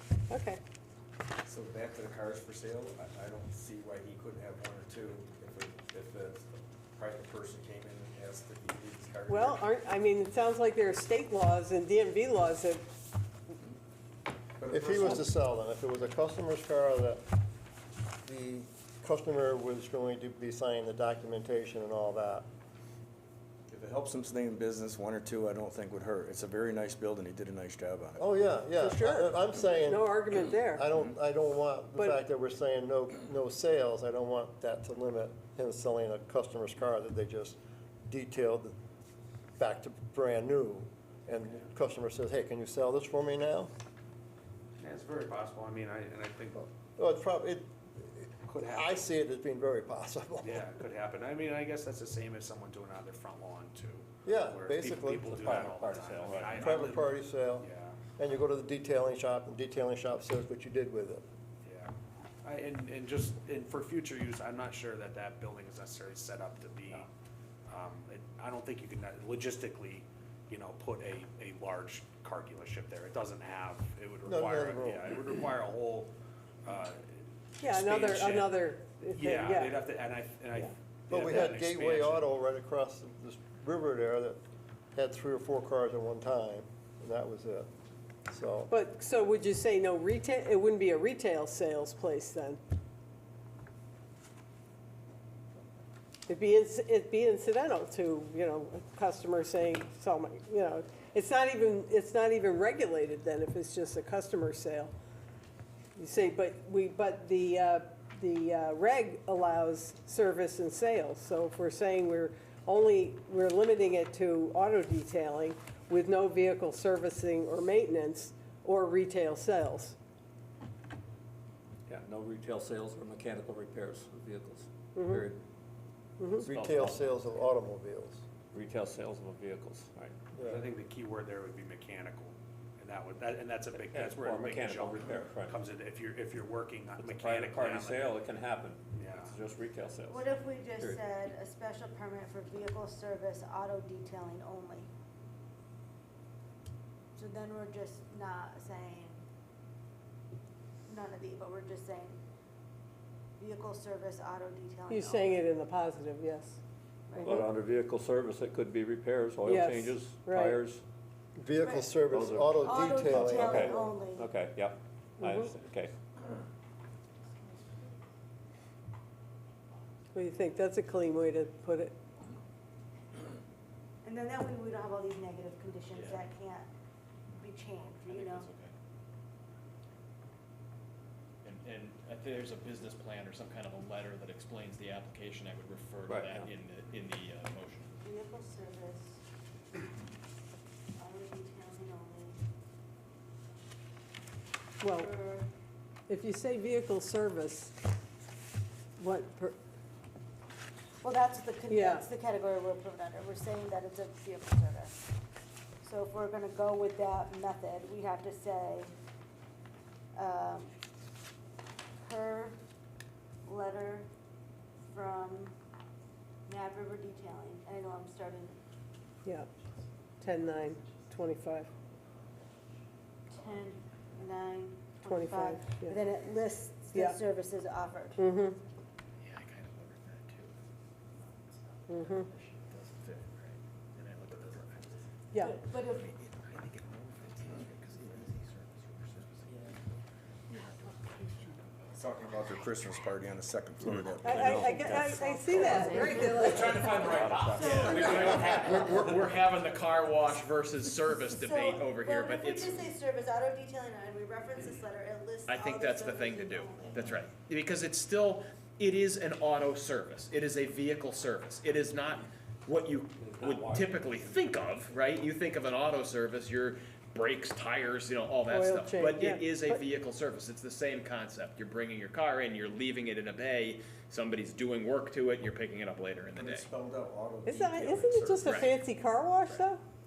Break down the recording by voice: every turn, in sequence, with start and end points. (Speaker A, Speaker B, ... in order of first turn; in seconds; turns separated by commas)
Speaker A: 0.3-0.6, Speaker B: 1.4-9.6, Speaker A: 9.3-12.9, Speaker B: 14.6-15.3, Speaker C: 14.7-17.2, Speaker C: 18.2-22.5, Speaker B: 23.7-28.3, Speaker C: 28.2-38.7, Speaker A: 28.7-30.9, Speaker A: 31.9-32.2, Speaker C: 39.6-43.7, Speaker D: 44.8-46.7, Speaker C: 47.0-50.6, Speaker D: 48.5-49.1, Speaker D: 50.4-58.0, Speaker C: 54.2-55.6, Speaker E: 55.2-56.7, Speaker C: 56.6-57.6, Speaker C: 58.2-61.2, Speaker D: 61.6-61.9, Speaker D: 62.4-67.1, Speaker D: 67.7-76.1, Speaker C: 74.3-75.0, Speaker D: 76.7-77.1, Speaker A: 77.6-79.8, Speaker D: 77.6-82.4, Speaker C: 81.1-84.4, Speaker C: 84.9-87.7, Speaker C: 88.3-88.7, Speaker A: 88.7-92.6, Speaker A: 96.3-104.9, Speaker A: 106.0-120.0, Speaker E: 121.9-125.4, Speaker A: 125.0-125.2, Speaker A: 126.2-126.5, Speaker C: 126.5-128.2, Speaker E: 126.5-127.1, Speaker E: 128.5-130.2, Speaker C: 130.3-130.6, Speaker D: 130.4-138.2, Speaker E: 133.7-135.6, Speaker E: 137.0-141.1, Speaker D: 138.9-139.3, Speaker F: 140.1-144.9, Speaker F: 147.2-149.2, Speaker F: 150.9-152.2, Speaker F: 153.4-155.4, Speaker A: 154.9-156.6, Speaker F: 157.1-157.5, Speaker E: 157.2-160.8, Speaker A: 159.4-160.6, Speaker C: 161.4-163.9, Speaker F: 161.6-162.0, Speaker B: 162.1-163.5, Speaker F: 162.6-164.3, Speaker E: 163.2-165.9, Speaker A: 165.2-165.5, Speaker A: 170.1-172.0, Speaker F: 174.0-176.7, Speaker G: 175.9-176.2, Speaker F: 177.4-178.5, Speaker G: 178.1-178.7, Speaker G: 181.4-187.9, Speaker E: 186.1-186.5, Speaker F: 188.0-189.2, Speaker F: 191.0-192.4, Speaker A: 194.8-195.1, Speaker F: 194.9-195.5, Speaker A: 196.1-197.7, Speaker A: 199.0-199.6, Speaker F: 201.0-204.9, Speaker A: 201.7-202.1, Speaker F: 205.8-208.9, Speaker F: 210.2-210.7, Speaker F: 212.0-212.6, Speaker F: 213.4-214.1, Speaker F: 214.9-215.6, Speaker F: 216.5-218.6, Speaker A: 220.2-221.7, Speaker F: 223.3-228.3, Speaker A: 225.1-226.0, Speaker A: 226.9-227.2, Speaker A: 228.2-228.6, Speaker G: 229.2-230.6, Speaker A: 231.9-232.3, Speaker G: 231.9-235.0, Speaker F: 235.4-236.1, Speaker G: 235.7-239.8, Speaker G: 240.5-241.6, Speaker B: 241.9-245.1, Speaker E: 244.0-246.3, Speaker A: 244.2-247.0, Speaker G: 245.5-252.8, Speaker F: 245.6-246.1, Speaker F: 246.8-249.0, Speaker E: 247.0-248.9, Speaker F: 251.3-257.2, Speaker G: 255.5-276.7, Speaker B: 263.3-264.1, Speaker A: 268.5-269.8, Speaker B: 276.4-278.7, Speaker A: 277.4-279.8, Speaker G: 278.4-278.8